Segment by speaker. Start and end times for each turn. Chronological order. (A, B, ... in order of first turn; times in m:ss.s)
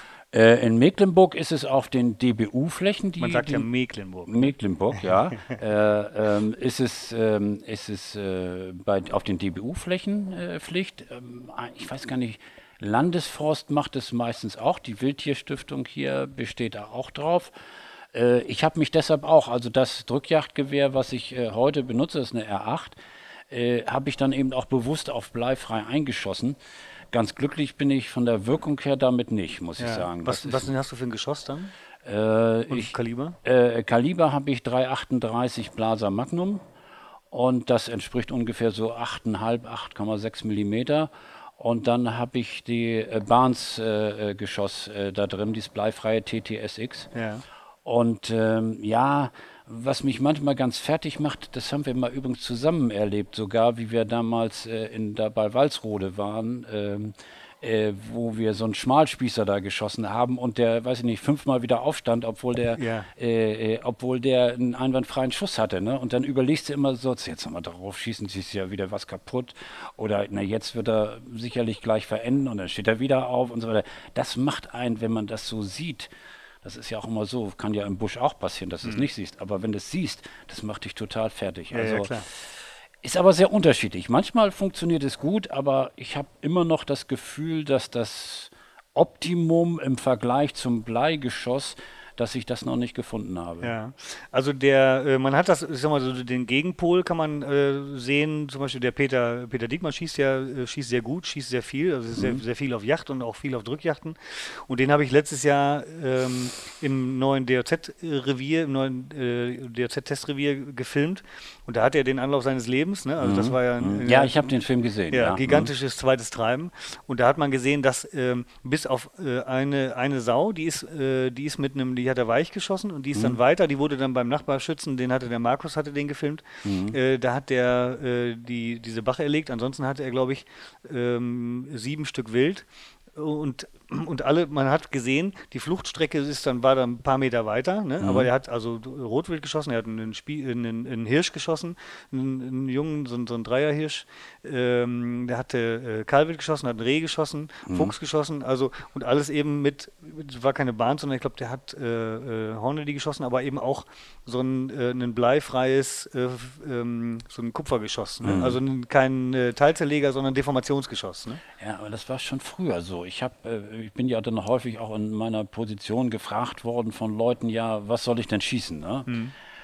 0:00.3-0:03.7 A
0:03.2-0:04.5 B
0:04.3-0:17.5 A
0:18.1-0:23.0 A
0:23.5-0:26.6 A
0:27.1-0:30.7 A
0:29.8-0:31.7 B
0:32.0-0:36.6 A
0:32.7-0:33.4 B
0:37.3-0:47.1 A
0:47.1-0:47.4 B
0:47.8-1:16.1 A
1:02.8-1:03.1 B
1:16.6-1:33.7 A
1:21.7-1:22.3 B
1:33.6-1:54.3 B
1:53.2-1:55.7 A
1:55.1-2:41.4 B
2:06.6-2:07.0 A
2:18.0-2:18.3 A
2:27.7-2:27.9 A
2:38.2-2:38.6 A
2:41.6-2:49.1 A
2:49.1-2:49.3 B